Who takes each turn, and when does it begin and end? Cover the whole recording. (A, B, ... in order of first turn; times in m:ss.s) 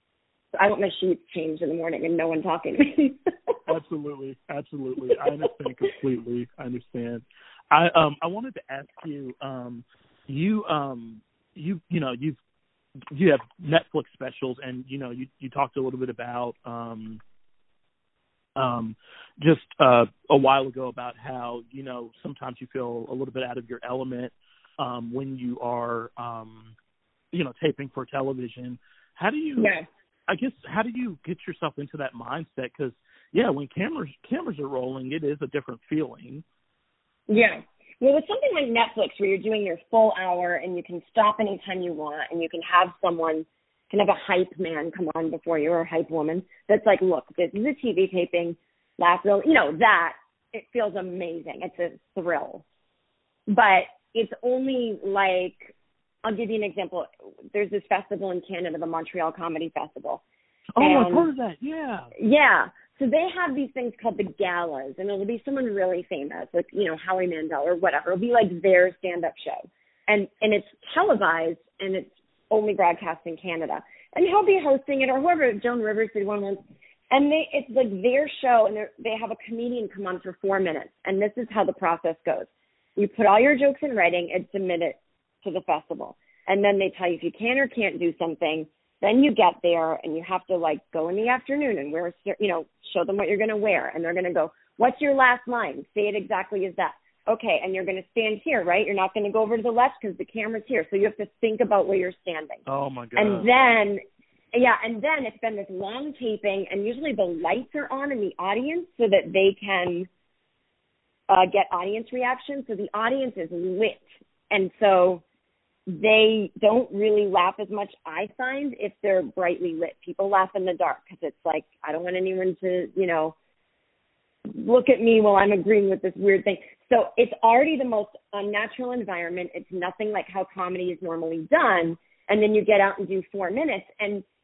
0:00.5-0:03.5 A
0:03.7-0:12.4 B
0:13.1-0:17.2 B
0:18.6-0:26.7 B
0:27.3-0:29.7 B
0:29.6-0:29.8 A
0:30.3-0:36.4 B
0:37.3-0:52.6 A
0:53.5-0:55.7 A
0:56.2-1:00.2 A
1:00.8-1:02.1 B
1:00.8-1:01.3 A
1:02.1-1:16.6 A
1:17.1-1:42.6 A
1:42.6-1:43.5 B
1:43.2-1:44.0 A
1:44.5-1:50.1 A
1:51.3-1:55.2 A
1:55.9-2:03.3 A
2:04.5-2:14.2 A